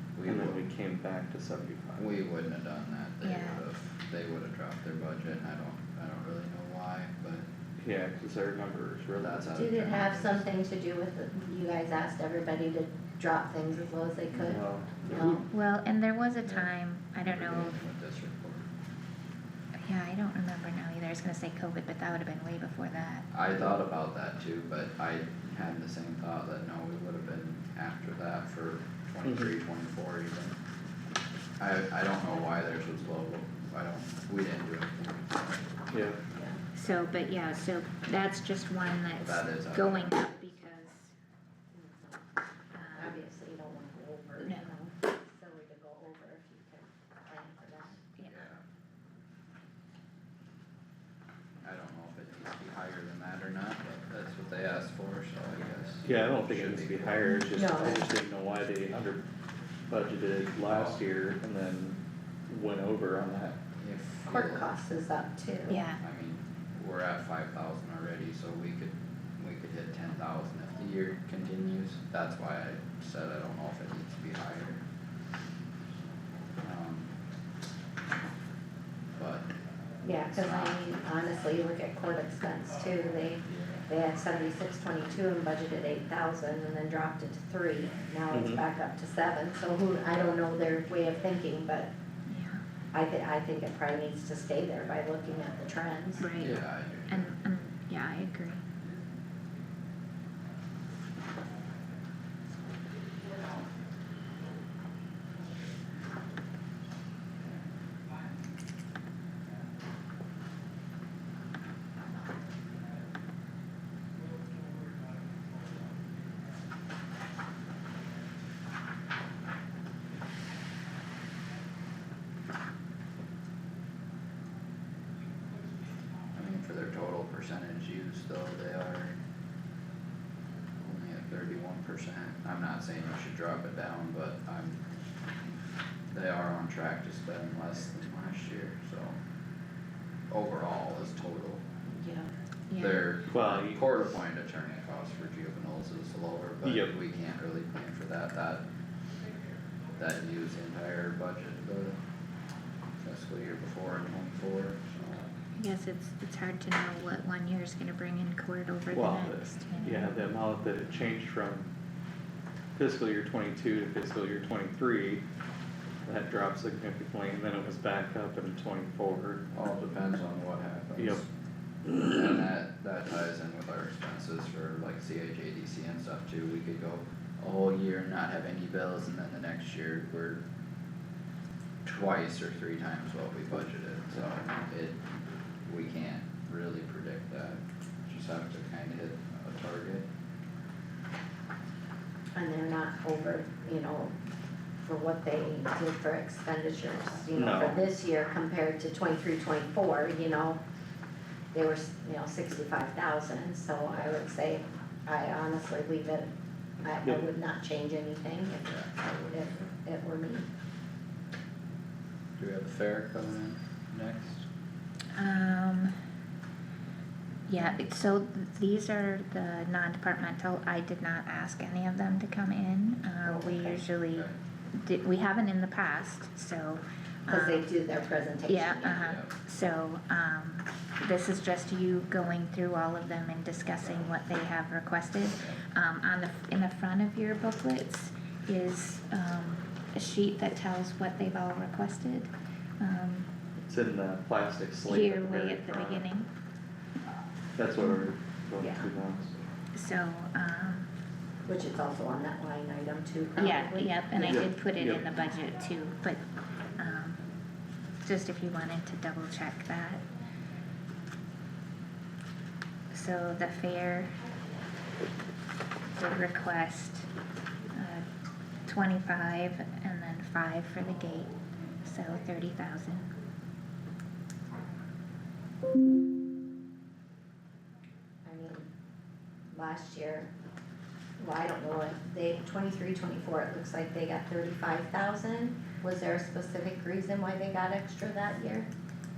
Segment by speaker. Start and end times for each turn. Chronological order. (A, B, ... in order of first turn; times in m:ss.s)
0:00.2-0:00.6 A
0:00.3-0:02.0 B
0:02.0-0:07.4 A
0:03.2-0:03.7 C
0:07.8-0:09.6 B
0:09.2-0:10.5 A
0:09.5-0:15.5 D
0:14.3-0:15.4 B
0:15.5-0:17.8 C
0:16.4-0:16.7 A
0:17.2-0:18.7 A
0:19.8-0:23.3 C
0:23.3-0:30.6 A
0:29.2-0:29.5 B
0:31.6-0:35.6 A
0:35.9-0:36.2 B
0:36.3-0:36.6 D
0:36.8-0:41.1 C
0:39.2-0:40.4 A
0:41.8-0:42.2 D
0:42.7-0:43.2 C
0:42.9-0:48.1 D
0:44.4-0:44.7 C
0:48.2-0:48.5 C
0:48.2-0:48.6 A
0:51.6-0:57.3 A
0:56.0-0:59.2 B
0:57.6-0:58.1 D
0:59.9-1:03.6 B
1:00.6-1:01.0 A
1:03.8-1:04.6 A
1:04.3-1:05.8 D
1:05.7-1:06.0 C
1:06.0-1:14.8 A
1:16.6-1:17.1 A
1:19.2-1:19.5 A
1:20.0-1:31.9 D
1:20.3-1:20.8 A
1:23.5-1:23.9 A
1:28.3-1:28.6 B
1:32.3-1:32.6 C
1:32.9-1:36.4 D
1:36.2-1:38.6 C
1:36.4-1:37.3 A
2:06.4-2:09.1 A
2:10.8-2:14.8 A
2:16.1-2:19.2 A
2:20.3-2:21.6 A
2:21.9-2:22.3 D
2:22.7-2:23.1 C
2:22.8-2:28.6 A
2:23.3-2:23.8 B
2:26.6-2:26.9 B
2:30.0-2:32.0 A
2:33.0-2:35.3 A
2:35.6-2:40.2 C
2:38.9-2:41.7 B
2:42.8-2:45.2 B
2:46.0-2:49.4 B
2:49.5-2:51.3 A
2:51.9-3:00.4 A
3:01.8-3:05.0 A
3:05.7-3:10.0 A
3:12.4-3:14.2 D
3:14.8-3:20.6 D
3:17.3-3:17.8 B
3:21.5-3:26.3 D
3:26.8-3:30.5 D
3:28.6-3:29.7 A
3:32.4-3:34.4 A
3:35.2-3:35.9 C
3:37.5-3:47.7 C
3:43.2-3:43.8 D
3:47.3-3:49.0 D
3:48.5-4:03.3 C
3:48.9-3:49.3 A
3:55.3-3:55.6 A
4:03.6-4:06.1 B
4:04.8-4:06.3 C
4:07.6-4:09.4 B
4:08.6-4:08.9 D
4:09.7-4:10.9 C
4:11.5-4:14.0 D
4:13.4-4:16.2 C
4:14.2-4:15.0 B
4:16.8-4:17.2 C
4:18.0-4:20.1 C
4:22.9-4:24.2 C
4:25.9-4:27.1 C
4:27.7-4:28.0 C
4:28.7-4:33.1 C
4:38.2-4:38.7 D
4:39.5-4:40.3 D
4:41.2-4:48.7 D